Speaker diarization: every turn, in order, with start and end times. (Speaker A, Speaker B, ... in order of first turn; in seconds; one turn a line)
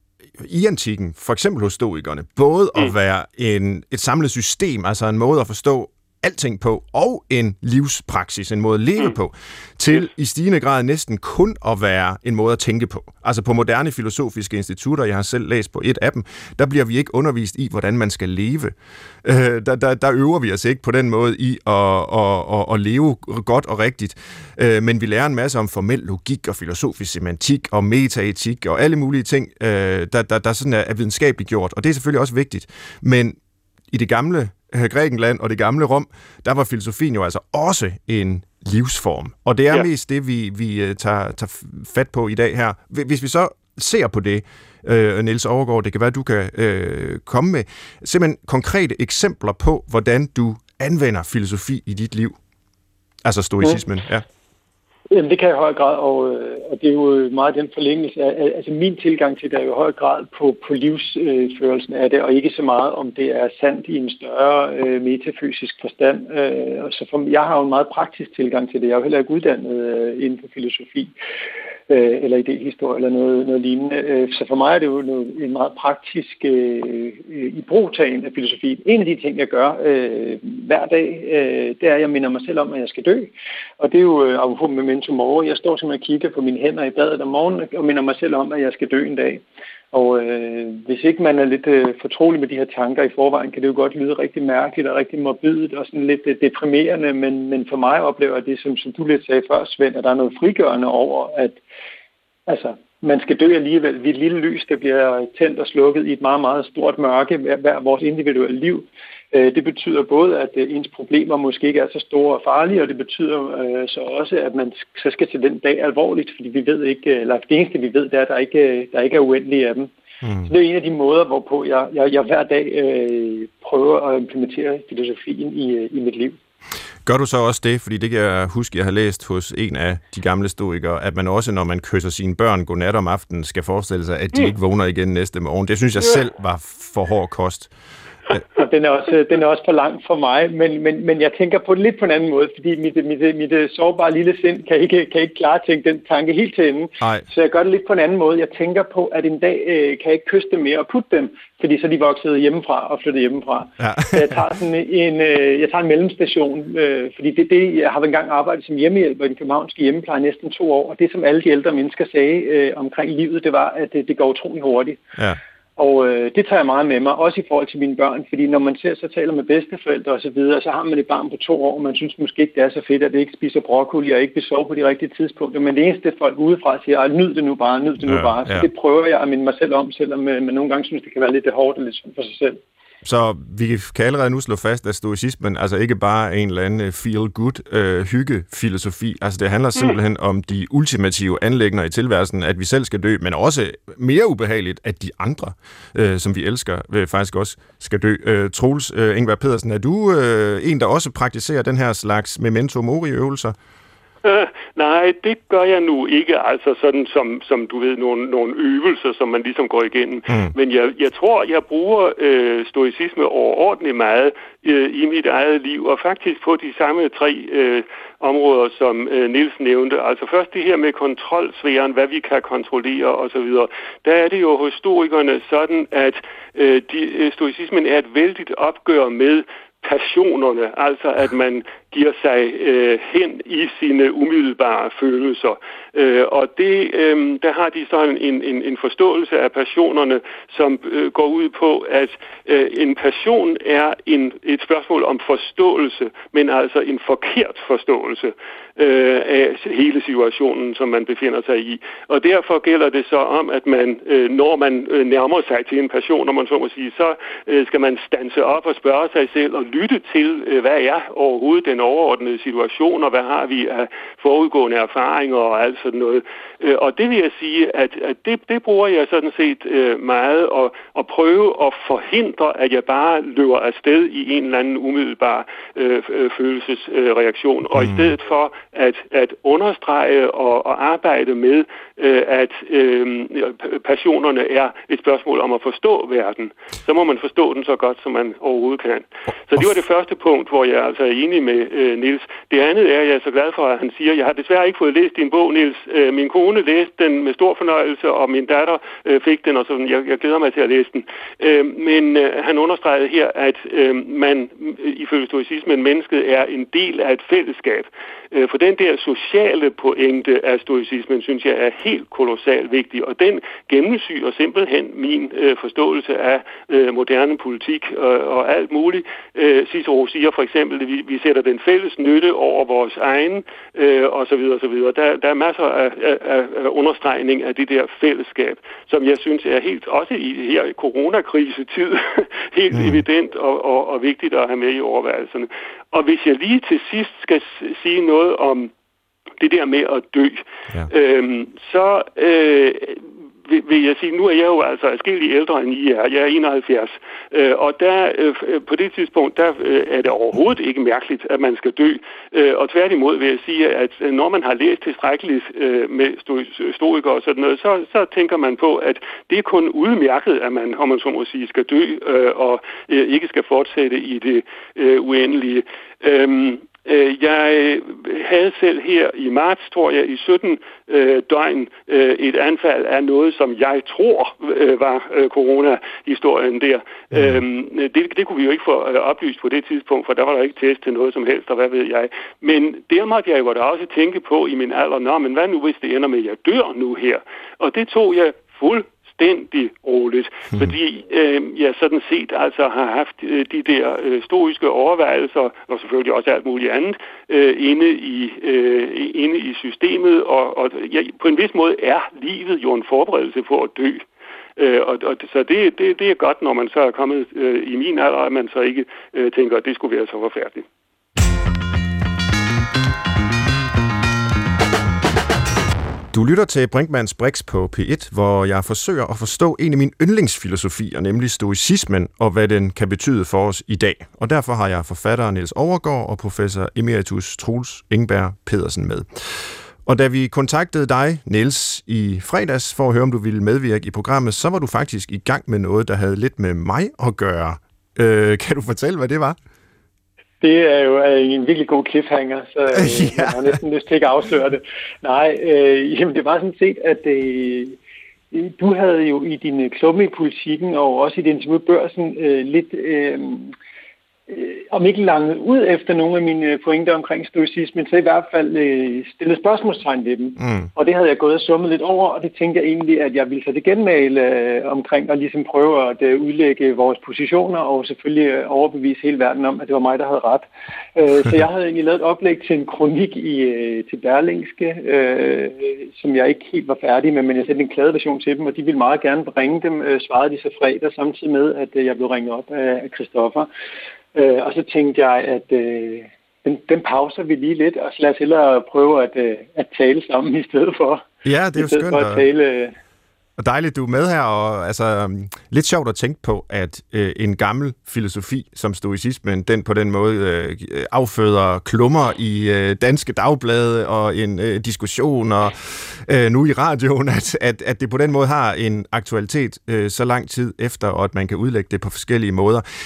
Speaker A: 0.4-33.4
Speaker A: 33.9-52.4
Speaker A: 53.2-54.2
Speaker B: 55.1-71.1
Speaker B: 71.9-101.6
Speaker B: 102.5-119.9
Speaker A: 120.2-120.5
Speaker B: 120.5-126.4
Speaker A: 127.1-137.7
Speaker B: 138.6-165.0
Speaker A: 153.8-154.2
Speaker B: 165.8-182.6
Speaker A: 178.0-178.7
Speaker A: 183.1-203.6
Speaker C: 204.2-338.7
Speaker A: 277.7-278.1
Speaker A: 332.7-333.0
Speaker C: 339.4-404.0
Speaker A: 377.1-377.4
Speaker C: 404.6-410.7
Speaker A: 416.1-439.4
Speaker B: 440.4-447.8
Speaker A: 442.7-443.4
Speaker B: 448.3-453.5
Speaker B: 454.3-483.5
Speaker A: 460.4-460.7
Speaker B: 484.1-492.8
Speaker A: 491.2-492.2
Speaker A: 493.4-512.6